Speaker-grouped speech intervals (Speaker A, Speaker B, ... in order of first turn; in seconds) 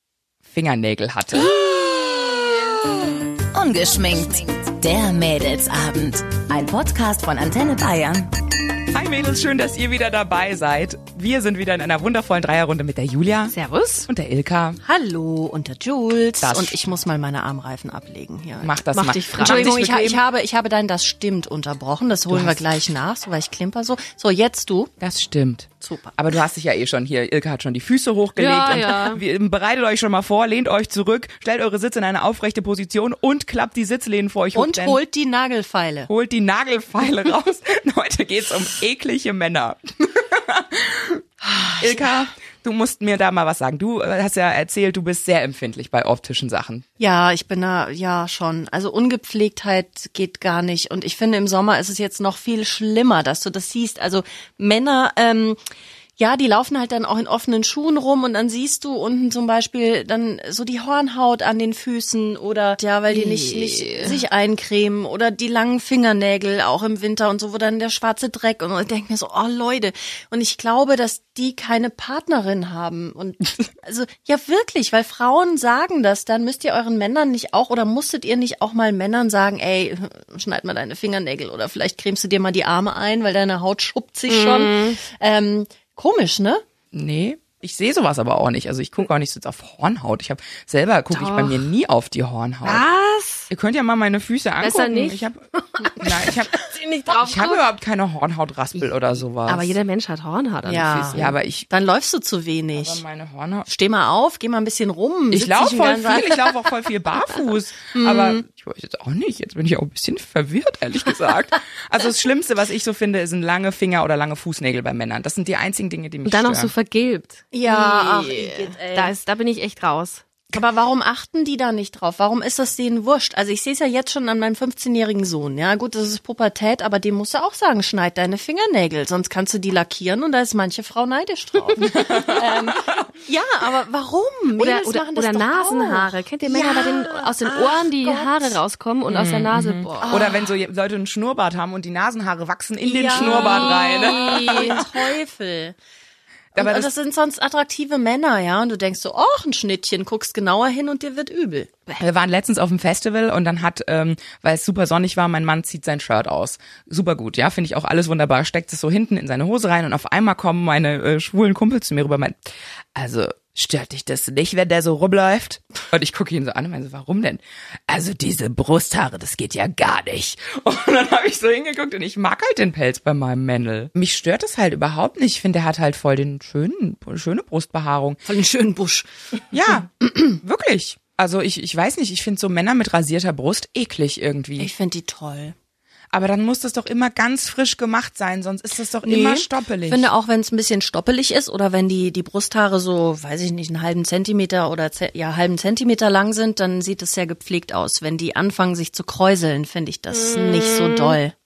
Speaker A: 0.5-1.5, 8.9-13.5, 14.1-14.8, 16.4-16.8, 18.6-20.2, 22.3-22.6, 25.0-35.0, 36.1-41.2, 41.8-46.9, 86.9-92.9, 93.5-95.4, 96.0-96.5, 97.2-99.8, 101.1-101.7, 102.8-103.7, 105.3-116.7, 131.8-133.0, 139.1-144.8, 146.6-146.9, 152.0-162.4, 162.9-178.2, 179.5-184.7, 186.1-190.1
Speaker B: 1.5-8.3
Speaker C: 13.5-14.1, 18.9-19.8, 28.4-29.2, 63.1-64.2, 84.3-85.0, 91.1-91.7, 92.6-93.5, 94.6-97.7, 98.8-101.4, 116.2-120.2, 134.6-140.2, 143.1-144.8, 200.1-201.2
Speaker D: 14.8-18.8, 19.4-24.9, 25.8-26.2, 34.5-36.1, 41.4-42.2, 47.0-55.6, 56.2-86.6, 100.7-103.0, 103.7-106.7, 107.9-108.5, 117.5-119.1, 120.5-138.6, 140.0-140.5, 142.8-145.8, 146.6-151.7, 178.3-179.1, 184.6-185.6, 189.0-201.3